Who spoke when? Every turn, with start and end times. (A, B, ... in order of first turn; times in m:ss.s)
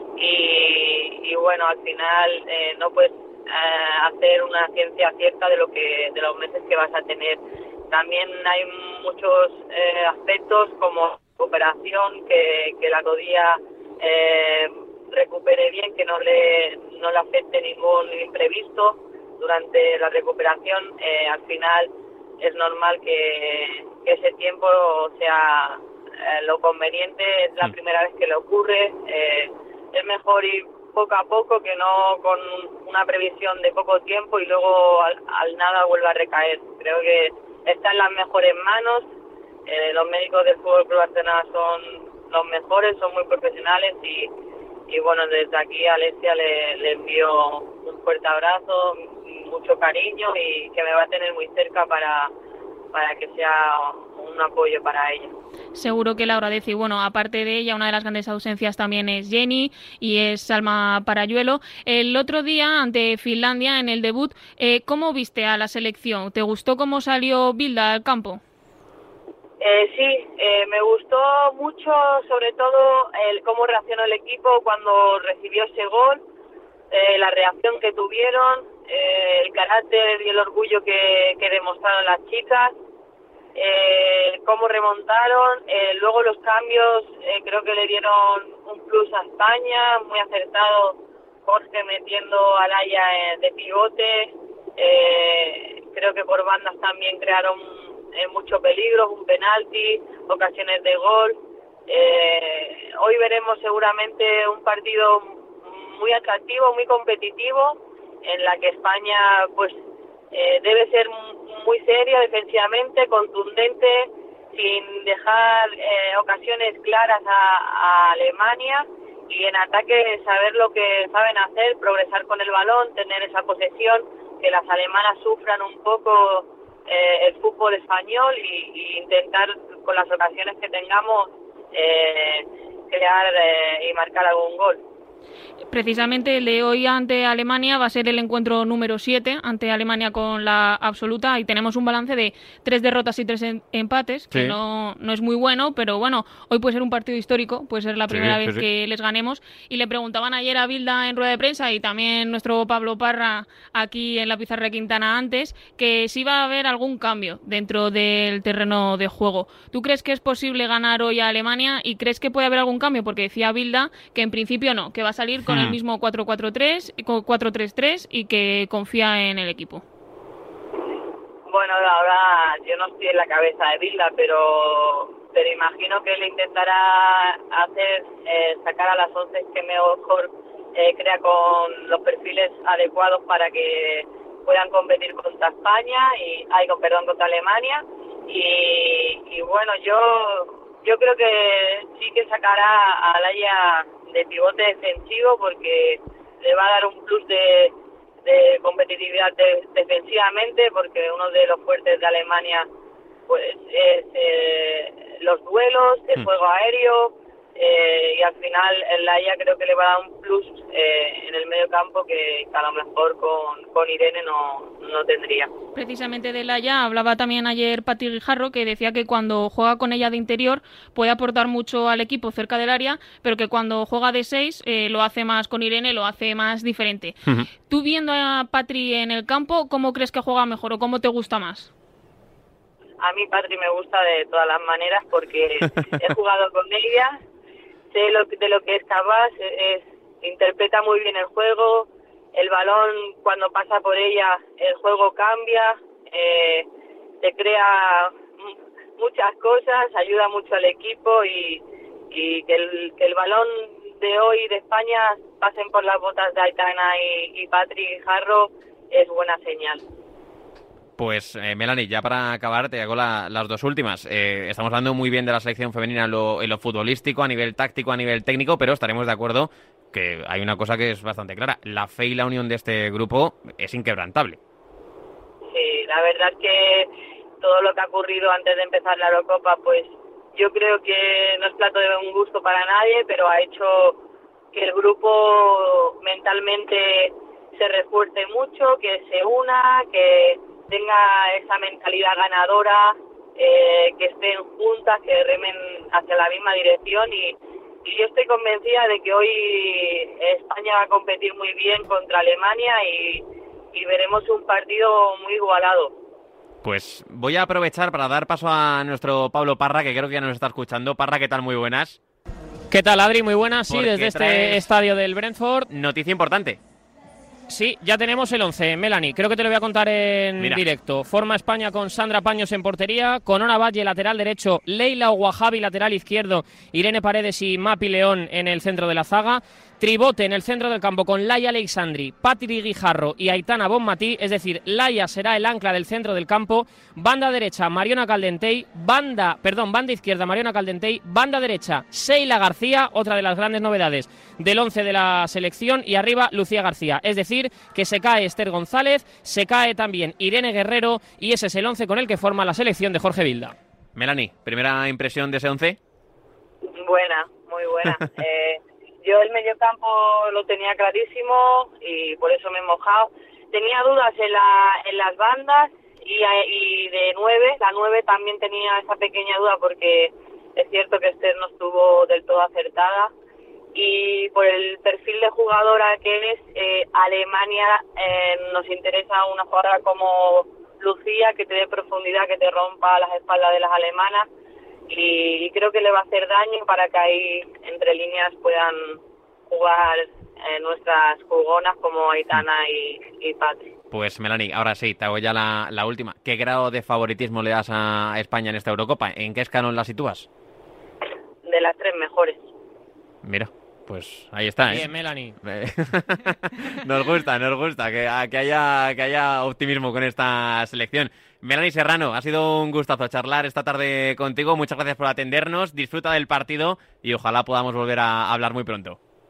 0:00.2-0:39.1 A
0:39.6-0:44.3 A
0:44.9-0:52.3 A
0:52.9-0:55.3 A
0:55.8-1:08.4 B
1:09.6-1:16.2 A
1:16.9-1:22.8 A
1:23.5-1:49.8 A
1:50.3-2:14.8 A
2:15.7-2:49.8 B
2:24.3-2:24.6 C
2:28.1-2:28.6 C
2:45.4-2:45.8 C
2:51.5-3:17.7 A
3:18.2-3:22.7 A
3:23.3-3:35.5 A
3:35.8-3:51.7 B
3:53.0-3:57.2 A
3:57.9-4:06.7 A
4:07.2-4:19.8 A
4:21.0-4:34.4 C
4:35.5-4:44.0 A
4:44.5-5:05.9 A
5:06.6-5:12.0 C
5:12.7-5:15.7 D
5:13.7-5:14.6 C
5:15.7-5:16.6 C
5:17.5-5:53.5 D
5:20.4-5:20.6 C
5:54.0-5:55.8 C
5:56.8-6:13.1 A
6:13.7-6:24.3 A
6:24.9-6:33.7 A
6:33.9-6:40.3 C
6:41.4-6:42.4 A
6:43.2-6:44.9 C
6:44.7-6:45.4 D
6:45.4-6:59.0 C